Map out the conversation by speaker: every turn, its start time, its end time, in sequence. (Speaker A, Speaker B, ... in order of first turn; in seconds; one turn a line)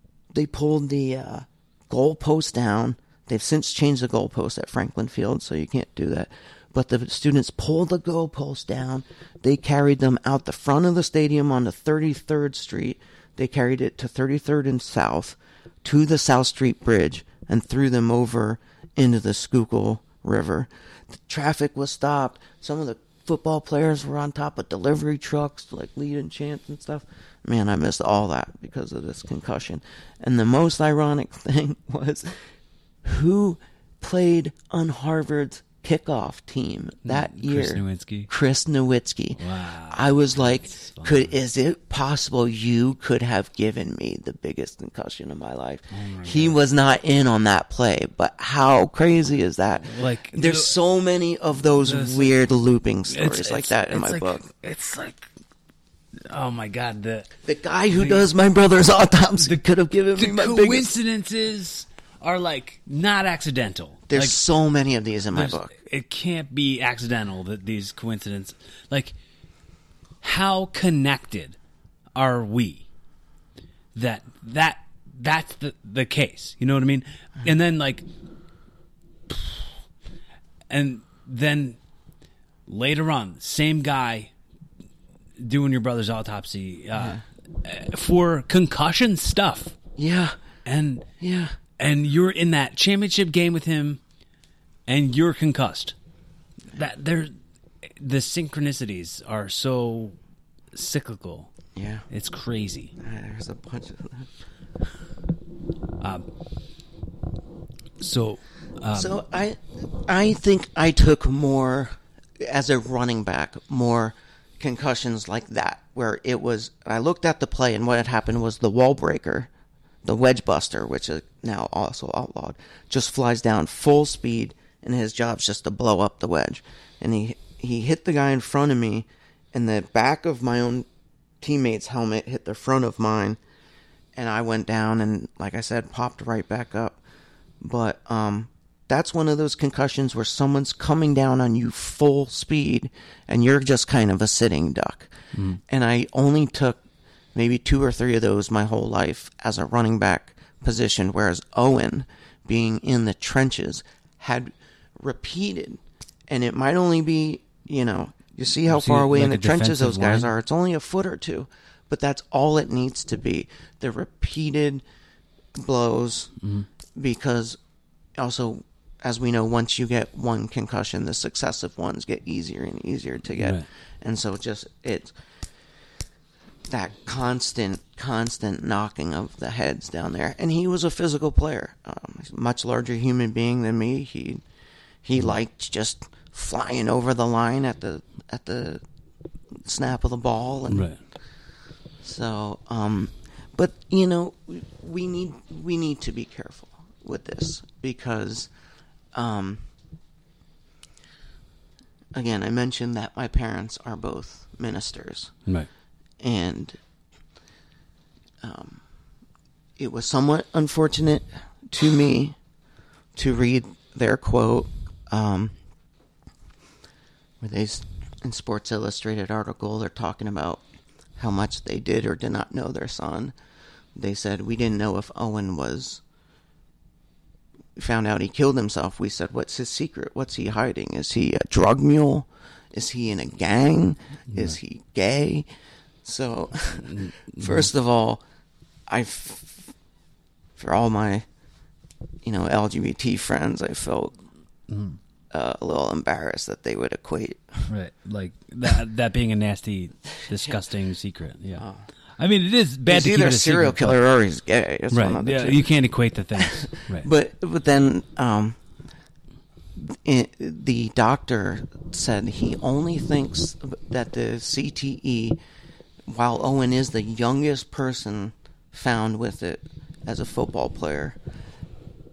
Speaker A: 0.3-32.5
Speaker A: 33.0-54.4
Speaker B: 37.0-38.3
Speaker B: 39.4-41.3
Speaker B: 45.9-46.6
Speaker B: 49.8-50.7
Speaker B: 51.8-52.4
Speaker B: 53.1-55.3
Speaker B: 56.2-57.3
Speaker A: 57.4-60.9
Speaker B: 57.9-58.2
Speaker B: 60.1-64.4
Speaker A: 64.1-65.7
Speaker B: 65.3-69.1
Speaker B: 70.2-71.6
Speaker B: 72.1-72.9
Speaker B: 73.9-78.1
Speaker B: 79.3-79.7
Speaker B: 80.7-81.8
Speaker B: 82.7-84.3
Speaker B: 85.4-89.8
Speaker A: 90.0-90.4
Speaker B: 90.6-91.1
Speaker A: 91.2-91.6
Speaker B: 91.7-94.0
Speaker B: 94.9-95.9
Speaker B: 96.7-100.2
Speaker B: 100.7-101.5
Speaker A: 101.7-102.1
Speaker B: 102.1-102.9
Speaker A: 103.0-104.3
Speaker B: 106.0-106.2
Speaker B: 108.0-109.2
Speaker A: 108.9-119.5
Speaker A: 120.0-130.9
Speaker A: 131.4-133.4
Speaker A: 134.1-137.0
Speaker A: 137.6-145.1
Speaker B: 145.3-145.6
Speaker A: 145.6-146.8
Speaker A: 147.3-164.8
Speaker B: 158.7-160.3
Speaker A: 165.6-166.3
Speaker B: 166.4-166.7
Speaker A: 166.9-167.6
Speaker A: 168.2-175.1
Speaker B: 173.3-173.7
Speaker A: 176.7-184.4
Speaker A: 185.0-188.8
Speaker A: 189.6-190.9
Speaker B: 190.7-191.0
Speaker A: 192.0-198.5
Speaker A: 199.1-199.6
Speaker A: 202.1-205.3
Speaker A: 206.2-206.8
Speaker A: 208.4-208.8
Speaker A: 209.8-212.4
Speaker A: 213.1-215.5
Speaker A: 217.4-220.6
Speaker A: 221.2-223.3
Speaker A: 223.9-226.0
Speaker A: 227.8-235.5
Speaker B: 234.3-234.6
Speaker A: 236.0-238.2
Speaker B: 236.8-237.7
Speaker A: 238.9-239.7
Speaker A: 240.6-241.2
Speaker A: 242.2-244.2
Speaker B: 244.7-245.0
Speaker A: 245.3-247.7
Speaker B: 247.7-251.7
Speaker A: 251.6-251.9
Speaker B: 252.2-254.0
Speaker A: 252.9-255.6
Speaker B: 254.9-257.1
Speaker A: 256.4-258.6
Speaker A: 259.8-265.4
Speaker A: 266.1-271.2